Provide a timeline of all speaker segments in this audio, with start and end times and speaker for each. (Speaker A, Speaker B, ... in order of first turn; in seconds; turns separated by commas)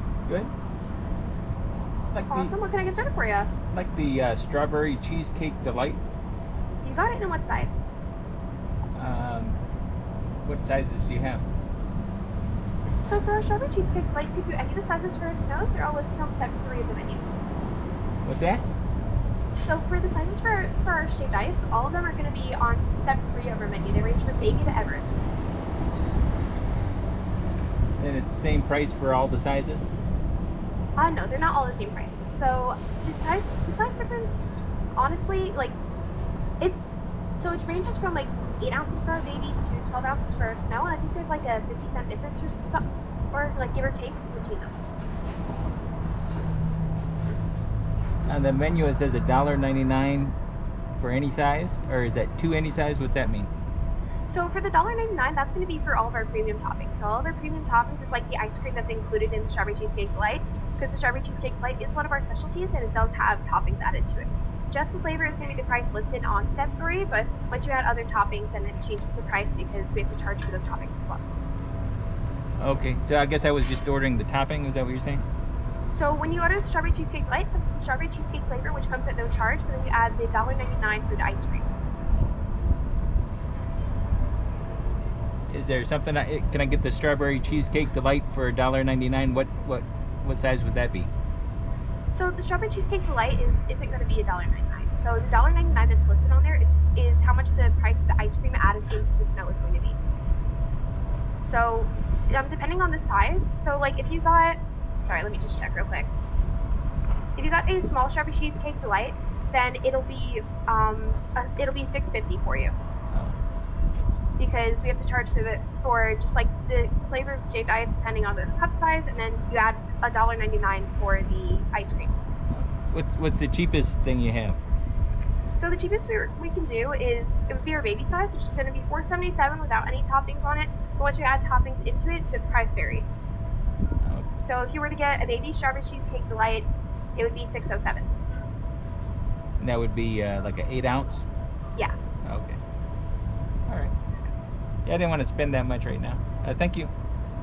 Speaker A: 2.1-2.5, Speaker B: 2.3-3.5, Speaker A: 3.7-6.0, Speaker B: 6.8-7.8, Speaker A: 8.9-9.6, Speaker A: 10.4-11.5, Speaker B: 13.0-17.3, Speaker A: 18.2-18.6, Speaker B: 19.6-25.2, Speaker A: 28.0-29.9, Speaker B: 31.0-34.5, Speaker B: 35.0-35.8, Speaker B: 37.4-44.8, Speaker A: 48.3-50.4, Speaker A: 51.0-53.5, Speaker B: 54.3-71.2, Speaker A: 72.6-75.2, Speaker B: 75.9-81.7, Speaker A: 85.5-91.1, Speaker B: 92.1-100.0, Speaker B: 101.4-106.1, Speaker B: 107.4-112.7, Speaker B: 114.4-122.2, Speaker A: 122.5-124.6, Speaker B: 125.6-133.2, Speaker A: 134.0-134.3, Speaker B: 134.4-138.1, Speaker A: 139.6-141.3, Speaker A: 142.2-142.6, Speaker A: 143.7-143.9, Speaker A: 144.9-146.9